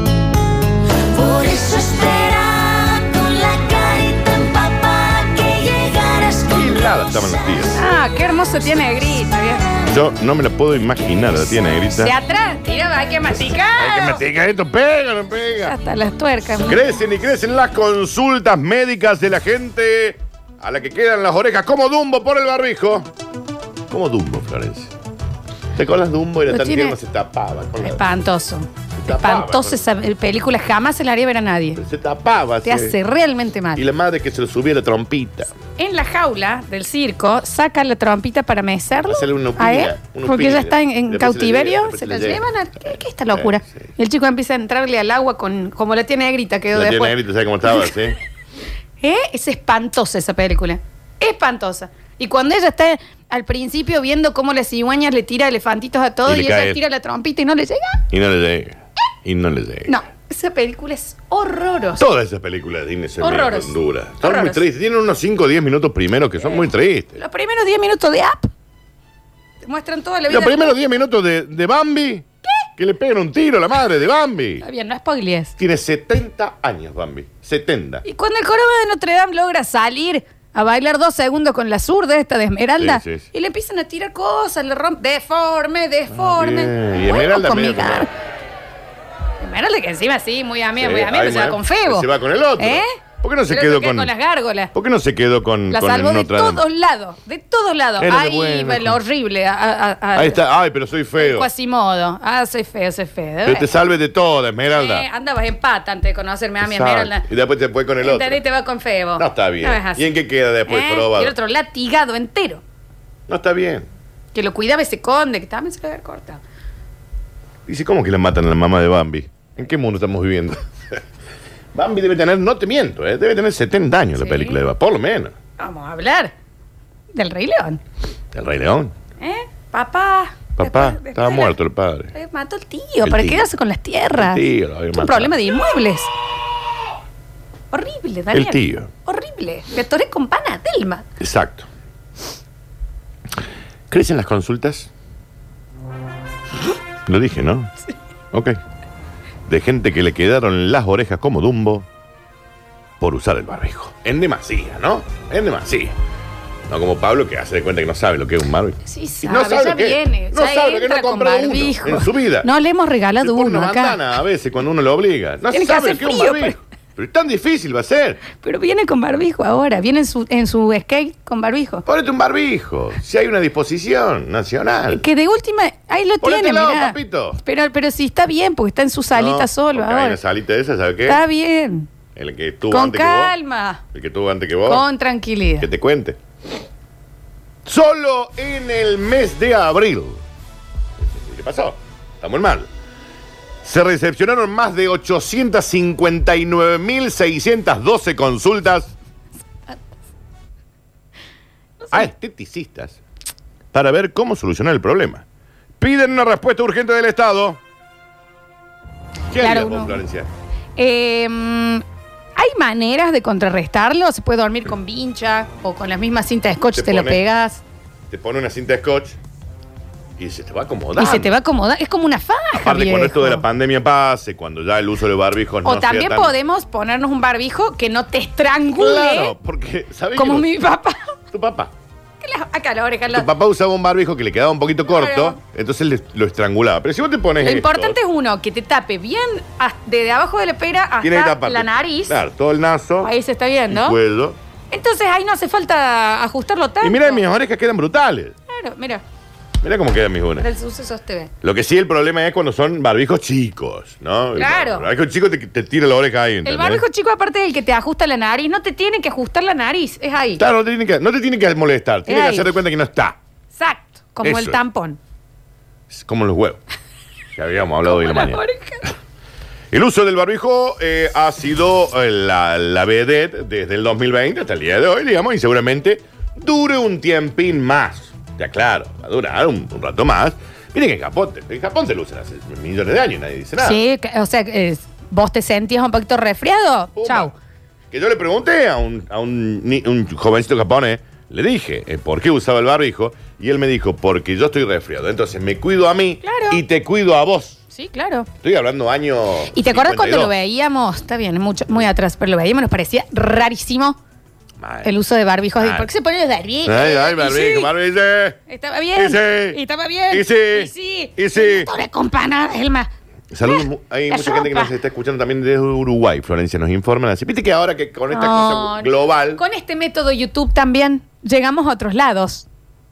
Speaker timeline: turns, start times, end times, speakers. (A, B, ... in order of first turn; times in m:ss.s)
0:01.1-0:07.5 A
0:06.5-0:07.8 B
0:07.7-0:09.7 C
0:09.9-0:12.1 B
0:11.9-0:14.2 C
0:13.7-0:15.8 B
0:15.6-0:16.8 C
0:16.6-0:23.1 B
0:23.9-0:24.9 B
0:25.7-0:28.0 B
0:26.5-0:27.0 C
0:27.8-0:31.8 C
0:29.0-0:29.8 B
0:31.8-0:33.0 B
0:32.6-0:33.8 C
0:33.8-0:35.5 B
0:35.8-0:47.9 C
0:39.0-0:42.4 B
0:43.3-0:43.8 B
0:46.7-0:48.2 B
0:49.0-0:58.0 C
0:56.2-0:56.8 B
0:58.1-1:00.0 B
0:59.9-1:02.0 C
1:02.0-1:07.2 B
1:03.2-1:04.6 C
1:06.4-1:08.5 C
1:09.6-1:10.8 C
1:10.3-1:12.2 B
1:12.8-1:14.6 B
1:14.6-1:15.5 C
1:15.6-1:18.0 B
1:18.0-1:28.1 C
1:22.8-1:23.3 B
1:26.1-1:28.1 B
1:29.4-1:32.9 C
1:30.8-1:34.1 B
1:33.5-1:34.7 C
1:34.7-1:36.6 B
1:35.7-1:40.4 C
1:38.0-1:39.0 B
1:40.1-1:41.5 B
1:41.2-1:43.7 C
1:43.4-1:45.1 B
1:44.7-1:47.2 C
1:46.6-1:48.4 B
1:48.0-1:50.1 C
1:49.2-1:51.3 B
1:50.7-1:52.6 C
1:53.3-1:53.9 B
1:54.3-1:56.4 C
1:57.7-2:01.0 B
2:01.7-2:05.3 B
2:04.2-2:04.6 C
2:05.6-2:06.3 C
2:07.1-2:07.8 C
2:08.3-2:08.9 B
2:09.2-2:11.6 C
2:10.6-2:12.1 B
2:12.1-2:16.1 C
2:13.0-2:13.5 B
2:14.1-2:15.3 B
2:17.7-2:21.0 C
2:18.3-2:18.9 B
2:21.2-2:21.7 B
2:23.9-2:24.9 B
2:27.0-2:27.7 B
2:28.3-2:28.6 B
2:29.5-2:31.8 B
2:33.0-2:35.9 B
2:36.7-2:42.5 B
2:38.8-2:44.0 C
2:43.2-2:48.2 B
2:45.5-2:46.6 C
2:48.3-2:51.8 C
2:51.8-2:55.0 B
2:54.9-3:00.2 C
2:56.2-2:57.4 B
2:59.1-3:01.2 B
3:01.0-3:01.9 C
3:02.1-3:03.3 B
3:02.7-3:03.8 C
3:03.9-3:04.8 B
3:04.6-3:05.7 C
3:05.6-3:06.2 B
3:07.6-3:10.2 B
3:11.0-3:12.7 B
3:13.6-3:18.9 B
3:21.8-3:22.1 C
3:21.9-3:23.0 B
3:23.7-3:25.2 B
3:25.8-3:27.6 B
3:29.3-3:30.3 B
3:29.4-3:30.0 C
3:30.8-3:31.8 C
3:32.4-3:37.6 C
3:36.7-3:37.2 B
3:38.1-3:39.2 B
3:40.2-3:41.3 B
3:41.0-3:43.4 C
3:42.6-3:46.3 B
3:45.6-3:49.3 C
3:48.7-3:50.5 B
3:50.1-3:51.2 C
3:51.3-3:51.7 B
3:52.2-3:53.3 C
3:53.1-3:58.0 B
3:54.9-3:55.4 C
3:57.4-4:02.2 C
4:01.0-4:03.1 B
4:03.0-4:04.0 C
4:03.7-4:04.4 B
4:04.7-4:07.2 C
4:06.8-4:08.3 B
4:08.5-4:09.0 C
4:09.6-4:10.5 B
4:10.4-4:11.3 C
4:11.4-4:16.8 B
4:14.4-4:14.9 C
4:16.4-4:20.4 C
4:20.4-4:23.2 B
4:22.1-4:22.5 C
4:23.6-4:25.0 C
4:24.2-4:24.6 B
4:25.9-4:26.6 B
4:27.4-4:28.9 B
4:27.8-4:28.8 C
4:29.7-4:43.8 B
4:43.6-4:47.3 C
4:46.9-4:47.3 B
4:47.9-4:57.6 B
4:56.2-4:56.6 C
4:57.7-4:58.3 C
4:58.4-5:00.3 B
4:59.5-5:04.0 C
5:04.6-5:04.9 B
5:04.8-5:07.7 C
5:05.6-5:05.9 B
5:06.6-5:08.4 B
5:08.5-5:12.9 C
5:08.9-5:11.7 B
5:13.3-5:19.4 B
5:13.4-5:14.7 C
5:18.1-5:22.4 C